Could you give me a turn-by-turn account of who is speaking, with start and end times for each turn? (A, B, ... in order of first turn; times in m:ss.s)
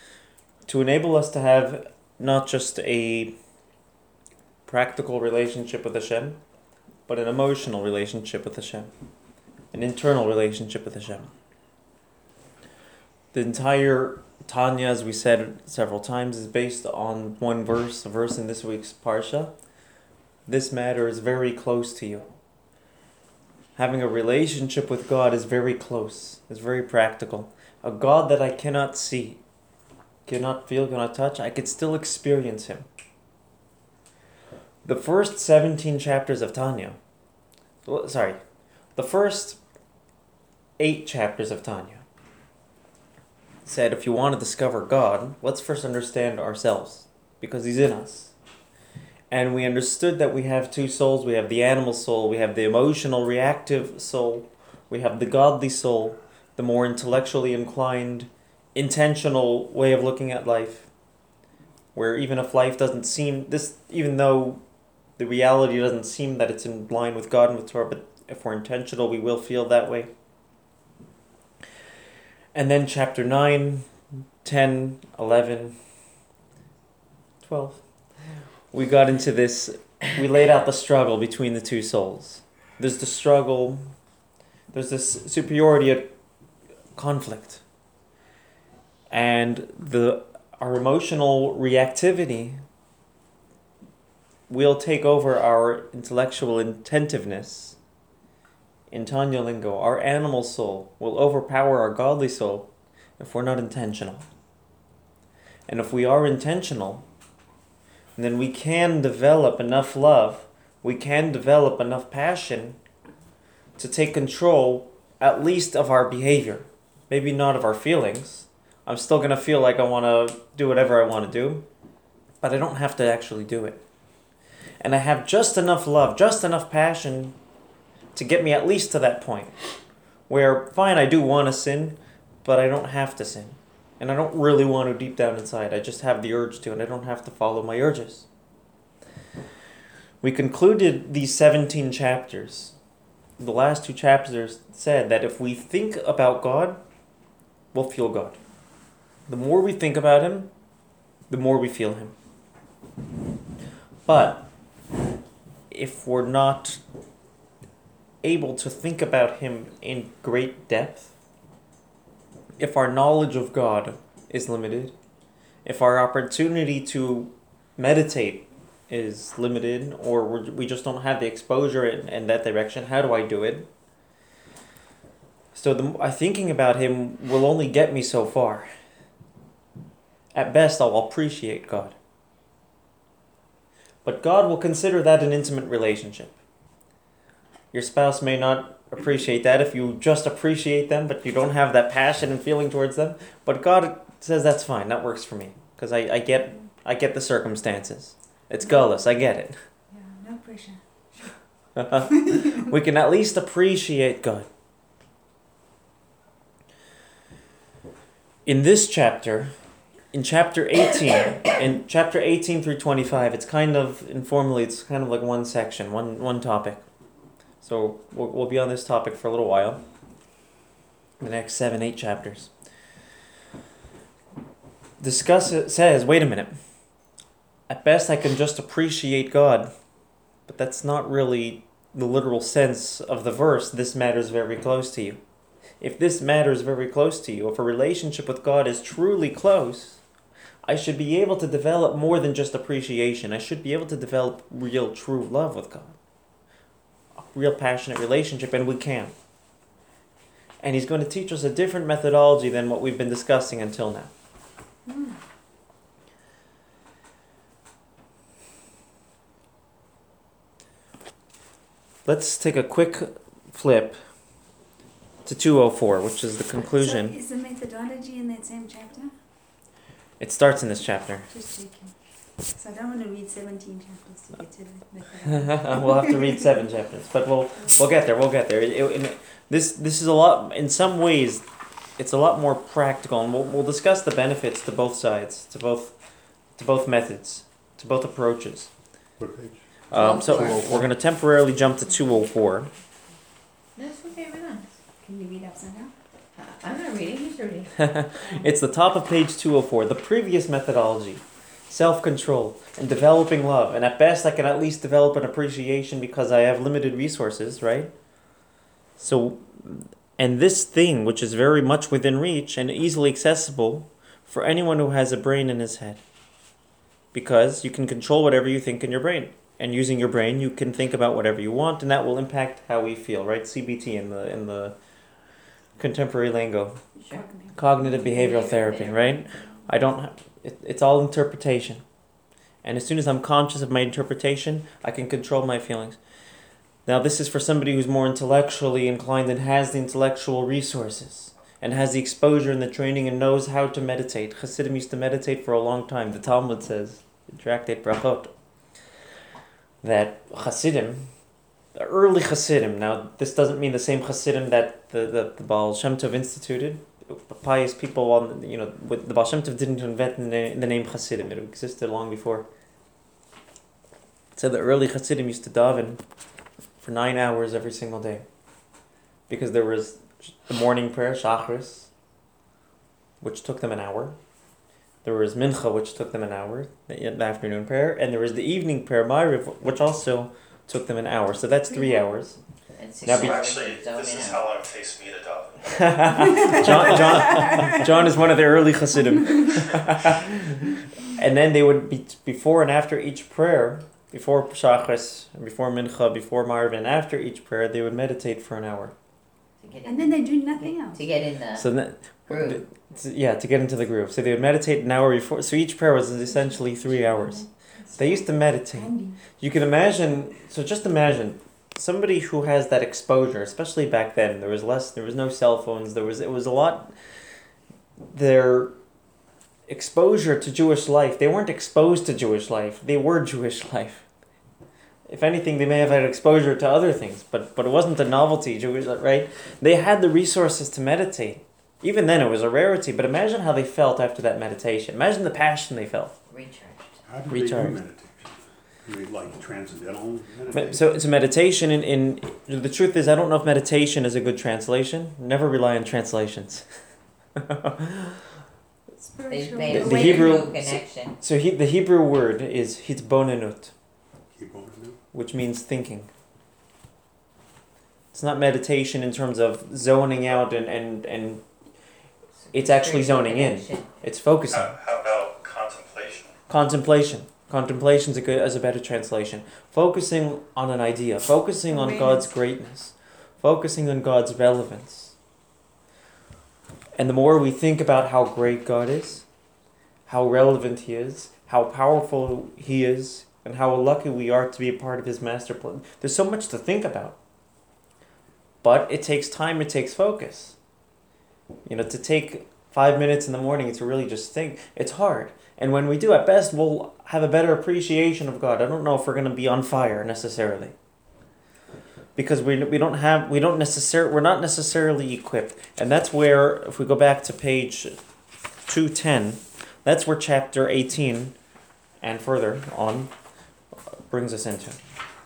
0:00.6-0:03.3 A
0:04.6-0:06.4 A
0:07.1-0:08.9 A
0:09.7-0:11.3 A
0:13.3-0:19.5 A
0:20.5-0:22.3 A
0:23.8-0:29.4 A
0:30.2-0:32.9 A
0:34.8-0:37.0 A
0:37.8-0:38.4 A
0:39.0-0:39.6 A
0:40.8-0:42.0 A
0:43.6-0:48.3 A
0:49.3-1:00.9 A
1:01.9-1:04.6 A
1:05.2-1:10.1 A
1:12.5-1:15.8 A
1:17.4-1:17.8 A
1:18.7-1:23.9 A
1:24.7-1:26.1 A
1:26.9-1:27.6 A
1:29.1-1:32.6 A
1:34.5-1:37.8 A
1:38.9-1:44.3 A
1:45.7-1:47.0 A
1:48.2-1:52.8 A
1:53.8-2:01.6 A
2:02.4-2:03.8 A
2:04.8-2:07.4 A
2:08.1-2:09.5 A
2:10.3-2:18.3 A
2:20.2-2:22.7 A
2:23.4-2:26.8 A
2:27.7-2:28.4 A
2:29.3-2:30.5 A
2:31.3-2:32.1 A
2:34.0-2:34.5 A
2:35.7-2:36.8 A
2:38.2-2:41.1 A
2:42.6-2:44.9 A
2:45.6-2:53.7 A
2:55.5-2:58.7 A
3:00.3-3:02.0 A
3:04.0-3:06.3 A
3:07.7-3:19.6 A
3:19.9-3:21.3 B
3:21.8-3:24.5 A
3:22.2-3:22.6 B
3:28.4-3:29.5 A
3:30.1-3:36.8 A
3:37.6-3:39.8 A
3:41.2-3:42.5 A
3:45.0-3:46.5 A
3:47.7-3:49.7 A
3:50.5-3:55.2 A
3:55.8-4:00.0 A
4:00.6-4:06.0 A
4:07.2-4:09.1 A
4:10.6-4:14.1 A
4:14.9-4:15.2 B
4:22.0-4:24.0 A
4:25.2-4:27.2 A
4:26.7-4:29.1 B
4:30.2-4:31.3 A
4:31.3-4:31.9 B
4:32.5-4:36.2 B
4:35.3-4:41.4 A
4:42.0-4:46.0 A
4:46.6-4:48.7 A
4:49.2-4:49.6 C
4:49.9-4:52.7 A
4:49.9-4:50.7 D
4:53.8-4:54.7 D
4:55.0-4:55.9 B
4:56.4-4:58.4 D
4:57.8-5:07.9 A
5:09.0-5:16.0 A
5:17.1-5:24.7 A
5:25.8-5:26.8 A
5:27.1-5:27.6 B
5:27.5-5:31.8 A
5:27.8-5:29.6 D
5:32.6-5:36.0 A
5:36.8-5:48.3 A
5:49.8-5:51.1 A
5:51.8-6:02.4 A
6:04.3-6:06.0 A
6:06.8-6:08.2 A
6:09.3-6:11.9 A
6:13.2-6:14.2 A
6:15.0-6:22.4 A
6:21.7-6:22.1 B
6:22.8-6:24.4 D
6:23.0-6:23.5 A
6:23.0-6:26.3 E
6:25.7-6:38.9 A
6:26.4-6:28.0 B
6:29.1-6:29.6 B
6:39.6-6:41.7 D
6:39.8-6:41.0 B
6:41.5-6:56.9 A
6:42.3-6:42.6 D
6:46.3-6:49.2 B
6:58.1-6:58.7 A
6:59.7-7:04.0 A
7:05.1-7:16.1 A
7:16.3-7:17.0 D
7:17.0-7:20.9 C
7:17.3-7:17.8 A
7:20.5-7:26.7 A
7:27.3-7:28.2 A
7:29.0-7:30.5 B
7:29.3-7:31.2 D
7:29.7-7:33.7 A
7:34.4-7:35.0 C
7:35.1-7:36.1 A
7:38.1-7:41.4 A
7:42.4-7:43.9 D
7:42.5-7:44.7 A
7:44.5-7:46.3 E
7:46.5-7:55.2 A
7:51.7-7:52.3 B
7:56.9-7:59.2 A
8:00.1-8:07.2 A
8:08.6-8:10.6 A
8:11.6-8:20.7 A
8:22.2-8:28.0 A
8:28.7-8:31.3 A
8:32.0-8:33.1 A
8:33.9-8:34.8 A